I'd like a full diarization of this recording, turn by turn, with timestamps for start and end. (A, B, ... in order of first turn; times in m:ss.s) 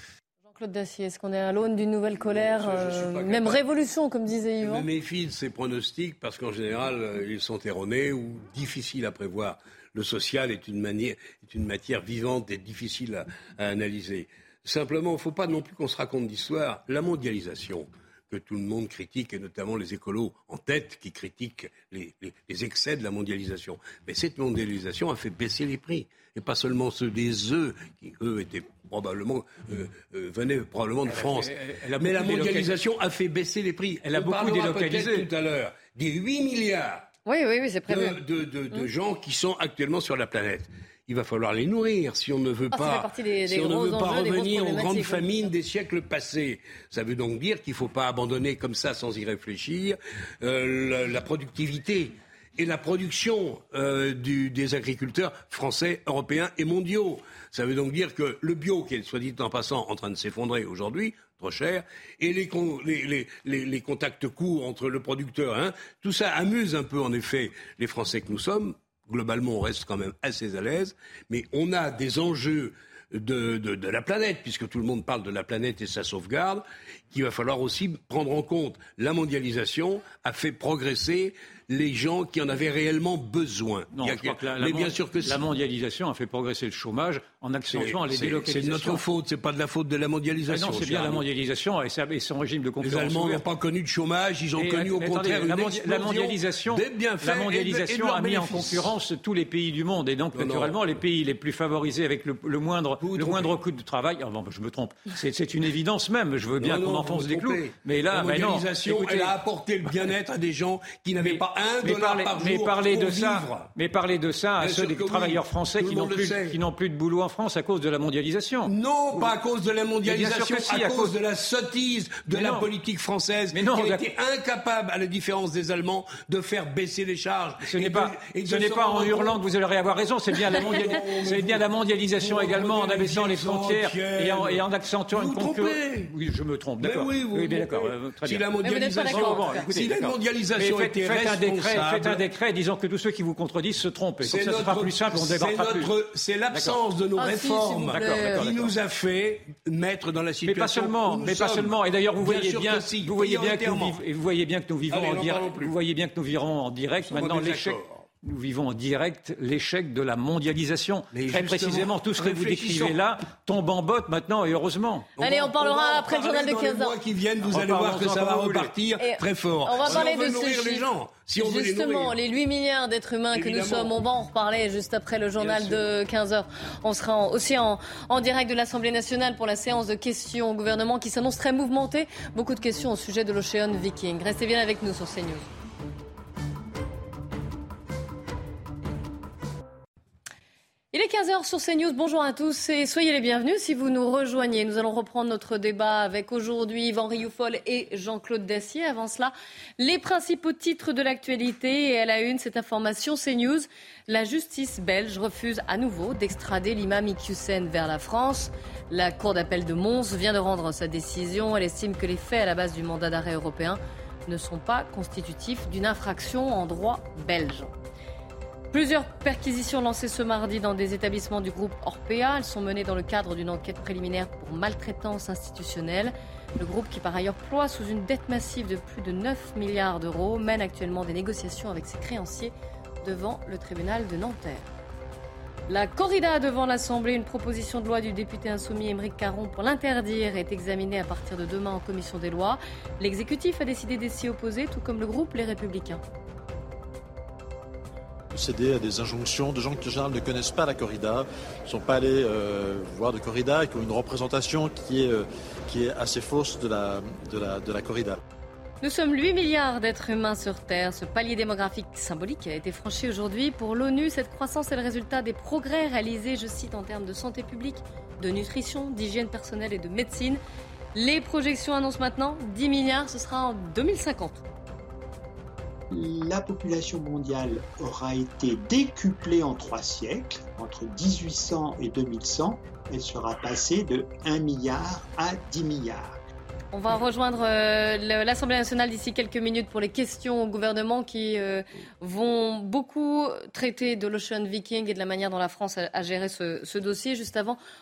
0:00.5-0:04.9 A
0:02.2-0:03.6 B
0:04.6-0:37.1 B
0:31.1-0:32.8 C
0:34.0-0:35.3 C
0:37.3-0:38.2 A
0:37.9-1:25.4 B
0:42.7-0:45.4 A
1:23.9-1:29.0 C
1:27.7-1:31.2 B
1:30.5-1:33.4 C
1:32.8-1:38.9 B
1:34.6-1:49.4 C
1:40.4-1:40.8 B
1:43.0-1:43.5 B
1:46.6-1:53.7 B
1:51.2-1:59.3 C
1:54.6-1:56.6 B
1:58.7-2:09.4 B
2:00.0-2:01.1 C
2:02.3-2:02.7 C
2:03.5-2:04.1 C
2:07.6-2:25.9 C
2:10.4-2:11.6 B
2:12.2-2:16.1 B
2:16.8-2:22.2 B
2:18.6-2:19.7 A
2:24.2-2:34.0 B
2:26.5-2:26.8 C
2:27.2-2:28.5 A
2:27.9-2:28.7 C
2:30.4-2:45.1 C
2:34.9-2:35.8 B
2:37.0-2:38.0 B
2:41.1-2:43.0 B
2:45.2-2:52.1 B
2:45.2-2:47.0 A
2:47.5-2:48.7 C
2:49.0-2:50.8 A
2:51.4-3:05.5 A
2:53.3-2:53.9 B
2:55.4-2:55.9 B
3:10.9-3:37.7 A
3:38.7-3:54.7 A
3:55.7-4:06.0 A
4:08.3-4:18.2 D
4:18.8-4:30.4 A
4:31.0-4:34.4 A
4:35.9-4:46.2 E
4:46.7-4:57.6 A